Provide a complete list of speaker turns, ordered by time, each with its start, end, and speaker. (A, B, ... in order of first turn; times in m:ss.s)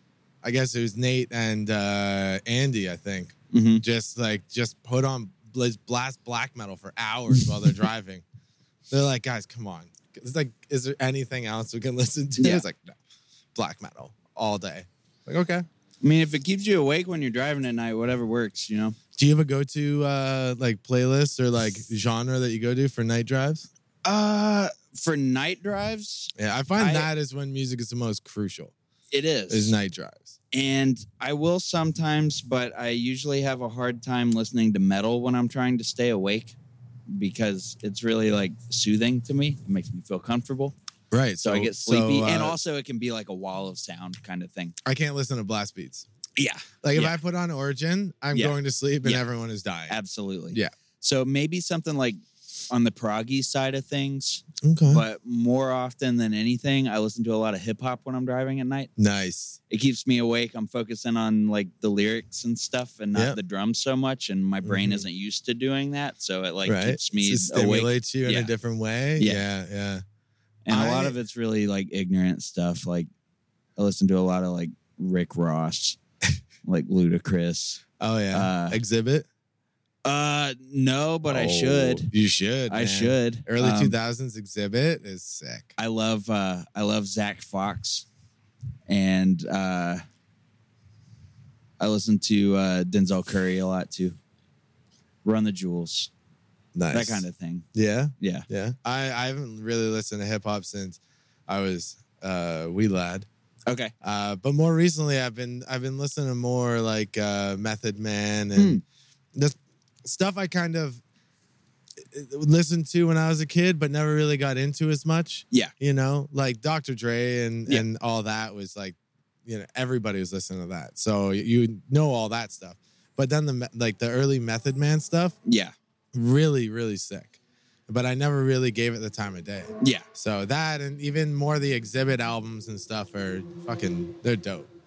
0:00.4-0:08.2 A
0:03.5-0:03.8 B
0:08.9-0:13.0 A
0:12.4-0:12.6 B
0:13.5-0:15.6 A
0:16.0-0:19.0 B
0:19.1-0:23.7 A
0:24.0-0:27.1 B
0:26.4-0:28.7 A
0:29.1-0:29.8 B
0:29.5-0:30.3 A
0:30.5-0:36.6 B
0:37.1-0:40.8 B
0:41.1-0:42.6 A
0:41.4-0:44.8 B
0:44.8-0:46.1 A
0:46.4-0:47.2 B
0:46.8-0:50.0 A
0:48.3-0:49.2 B
0:49.9-0:52.2 B
0:52.7-0:58.9 B
0:54.6-0:55.0 A
0:59.0-0:59.6 A
0:59.7-1:08.5 B
1:04.6-1:05.0 A
1:06.6-1:10.0 A
1:09.2-1:09.4 B
1:10.6-1:13.1 B
1:10.7-1:11.1 A
1:13.8-1:16.0 B
1:16.6-1:18.8 B
1:18.0-1:19.3 A
1:20.0-1:22.1 B
1:21.3-1:25.7 A
1:22.7-1:24.0 B
1:25.8-1:28.0 B
1:28.9-1:30.0 B
1:31.8-1:34.2 B
1:35.2-1:36.1 B
1:36.8-1:43.3 A
1:36.9-1:37.7 B
1:38.2-1:38.5 B
1:43.7-1:43.9 B
1:44.0-1:48.8 A
1:48.6-1:48.8 B
1:49.3-1:51.0 A
1:52.0-2:05.4 A
2:05.4-2:05.7 B
2:06.1-2:14.7 A
2:09.8-2:10.1 B